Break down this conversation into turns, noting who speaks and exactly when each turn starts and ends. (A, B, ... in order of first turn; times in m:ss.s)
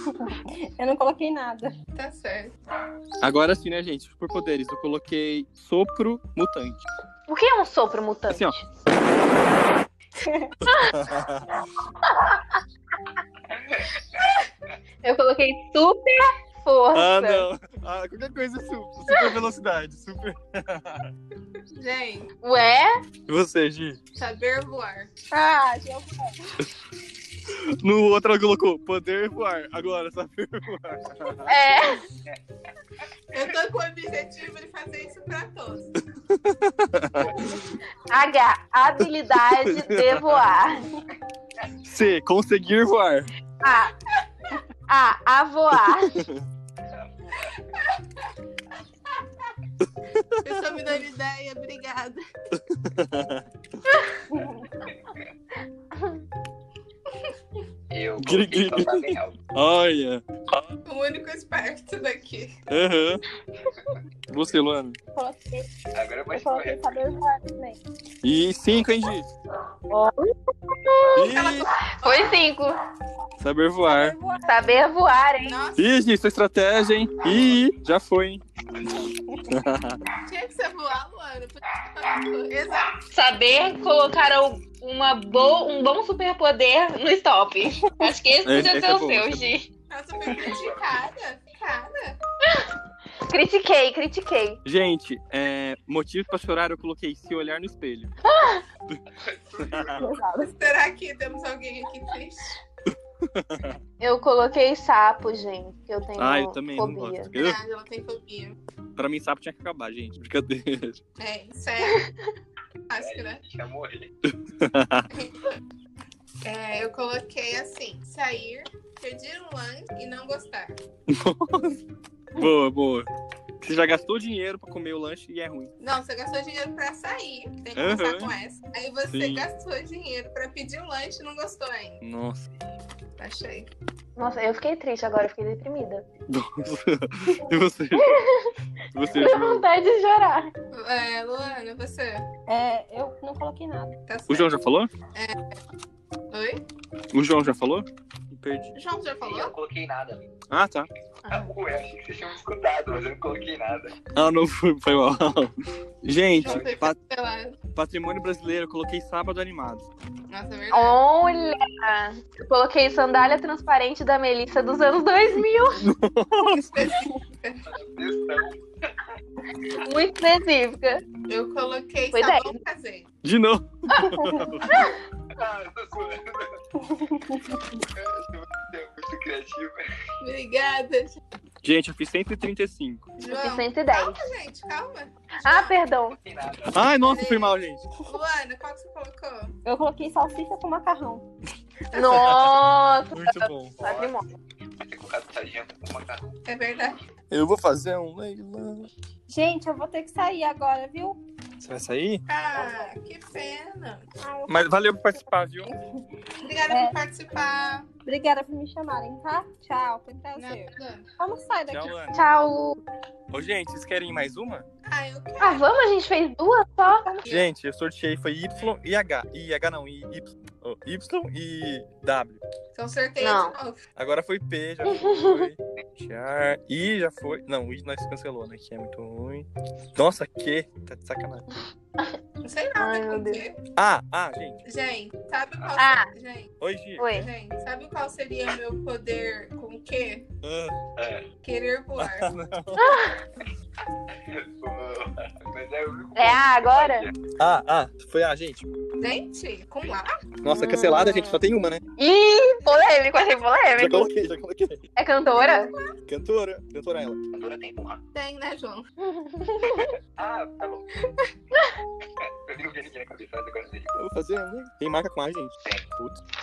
0:00.2-0:01.8 A
0:02.0-0:02.5 B
0:03.2-0:06.8 C
0:07.3-0:08.6 D
0:08.3-0:08.6 C
0:10.2-0:10.5 A
0:10.6-0:11.6 C
0:10.7-0:11.0 D
0:12.0-0:12.6 D
0:15.0-0:17.5 D
0:16.9-0:21.1 C
0:21.7-0:22.3 B
0:22.4-0:23.0 D
0:23.3-0:24.0 C
0:24.2-0:25.1 B
0:25.3-0:26.5 A
0:27.5-0:31.5 C
0:31.4-0:32.0 D
0:33.3-0:35.9 B
0:36.2-0:37.7 C
0:38.1-0:40.9 D
0:39.6-0:40.5 C
0:41.8-0:43.3 C
0:43.6-0:43.9 D
0:44.9-0:46.2 D
0:45.7-0:46.4 C
0:46.9-0:47.5 E
0:49.8-0:50.7 C
0:50.4-0:52.2 B
0:52.5-0:53.4 C
0:54.8-0:55.2 E
0:55.9-0:56.2 D
0:57.9-0:59.4 E
0:58.2-1:00.2 C
1:00.8-1:02.6 B
1:02.7-1:03.2 C
1:04.3-1:05.0 C
1:05.1-1:05.7 A
1:05.9-1:06.8 E
1:06.3-1:07.8 A
1:08.2-1:09.3 C
1:09.9-1:11.3 D
1:11.1-1:11.7 C
1:11.2-1:12.4 B
1:12.0-1:12.8 D
1:13.4-1:14.2 C
1:13.8-1:14.9 A
1:14.4-1:15.5 D
1:15.4-1:15.9 B
1:15.8-1:18.4 C
1:19.5-1:20.0 C
1:20.2-1:22.9 B
1:23.1-1:29.7 D
1:28.4-1:29.5 C
1:29.9-1:32.2 B
1:30.2-1:30.9 E
1:33.3-1:34.6 D
1:34.6-1:38.1 C
1:38.2-1:38.6 D
1:39.1-1:40.0 E
1:39.6-1:40.0 C
1:40.0-1:40.5 A
1:40.6-1:42.6 B
1:43.3-1:43.8 C
1:44.0-1:47.3 D
1:46.2-1:47.6 C
1:47.3-1:48.6 B
1:49.0-1:51.0 C
1:51.2-1:52.0 B
1:51.8-1:52.3 D
1:52.9-1:53.4 B
1:53.0-1:54.1 E
1:54.5-1:55.1 C
1:56.4-2:00.8 B
2:01.1-2:01.8 C
2:02.4-2:03.1 C
2:03.6-2:05.7 C
2:05.8-2:12.0 B
2:07.7-2:08.3 C
2:09.1-2:09.5 C
2:12.0-2:12.5 C
2:13.2-2:13.7 B
2:14.2-2:16.0 D
2:16.3-2:18.2 C
2:18.0-2:18.5 D
2:18.9-2:19.6 C
2:19.1-2:20.5 D
2:20.7-2:22.3 B
2:22.5-2:24.0 A
2:24.1-2:24.6 B
2:24.3-2:24.9 C
2:25.1-2:25.4 B
2:26.3-2:26.6 B
2:27.1-2:28.7 C
2:28.7-2:29.5 B
2:29.2-2:30.2 E
2:30.5-2:30.9 C
2:31.2-2:31.5 D
2:31.3-2:33.9 E
2:34.2-2:37.0 C
2:36.4-2:37.6 B
2:36.4-2:36.8 E
2:37.7-2:39.8 C
2:40.3-2:41.0 B
2:40.7-2:45.8 D
2:45.8-2:46.8 C
2:46.5-2:47.6 B
2:47.7-2:48.9 E
2:49.8-2:51.0 D
2:51.3-2:53.1 B
2:52.1-2:52.6 D
2:53.2-2:54.7 C
2:53.9-2:55.0 D
2:55.3-2:56.6 E
2:57.0-2:57.6 A
2:57.9-2:59.8 E
3:00.2-3:01.2 B
3:01.6-3:03.0 C
3:03.2-3:05.7 B
3:03.3-3:04.2 D
3:05.4-3:06.2 D
3:06.0-3:06.9 E
3:06.7-3:07.8 C
3:07.0-3:07.6 B
3:08.1-3:09.5 B
3:09.6-3:11.2 A
3:11.9-3:14.2 D
3:11.9-3:13.8 C
3:13.8-3:16.3 E
3:16.4-3:17.0 B
3:17.3-3:18.9 C
3:19.3-3:21.2 A
3:21.6-3:22.2 C
3:22.3-3:24.0 B
3:22.6-3:22.9 A
3:24.2-3:24.6 A
3:24.5-3:25.7 C
3:26.4-3:27.9 B
3:26.7-3:27.0 A
3:28.0-3:32.0 A
3:30.4-3:31.0 B
3:31.7-3:32.2 C
3:32.1-3:32.8 D
3:33.3-3:34.6 C
3:34.8-3:35.6 B
3:35.4-3:37.1 D
3:37.2-3:37.5 B
3:37.2-3:42.4 C
3:42.7-3:43.8 B
3:43.2-3:43.5 D
3:44.0-3:51.4 C
3:44.9-3:45.5 D
3:52.4-3:53.6 B
3:52.8-3:53.4 D
3:53.8-3:54.6 C
3:54.6-3:56.5 B
3:55.8-3:56.1 D
3:56.6-3:57.0 C
3:57.0-3:57.3 D
3:57.1-4:00.2 B
4:00.4-4:00.7 C
4:01.0-4:01.3 E
4:01.4-4:02.3 B
4:02.0-4:02.9 C
4:02.8-4:03.2 D
4:04.1-4:07.1 E
4:06.1-4:07.0 D
4:07.4-4:08.6 C
4:09.0-4:10.2 B
4:10.4-4:11.8 C
4:10.5-4:11.4 D
4:12.0-4:14.1 D
4:13.8-4:14.8 C
4:15.0-4:15.7 D
4:15.3-4:15.9 B
4:16.1-4:17.2 C
4:17.3-4:18.0 E
4:18.1-4:18.8 B
4:19.0-4:19.9 D
4:20.2-4:20.9 E
4:22.2-4:23.9 E
4:23.9-4:26.2 C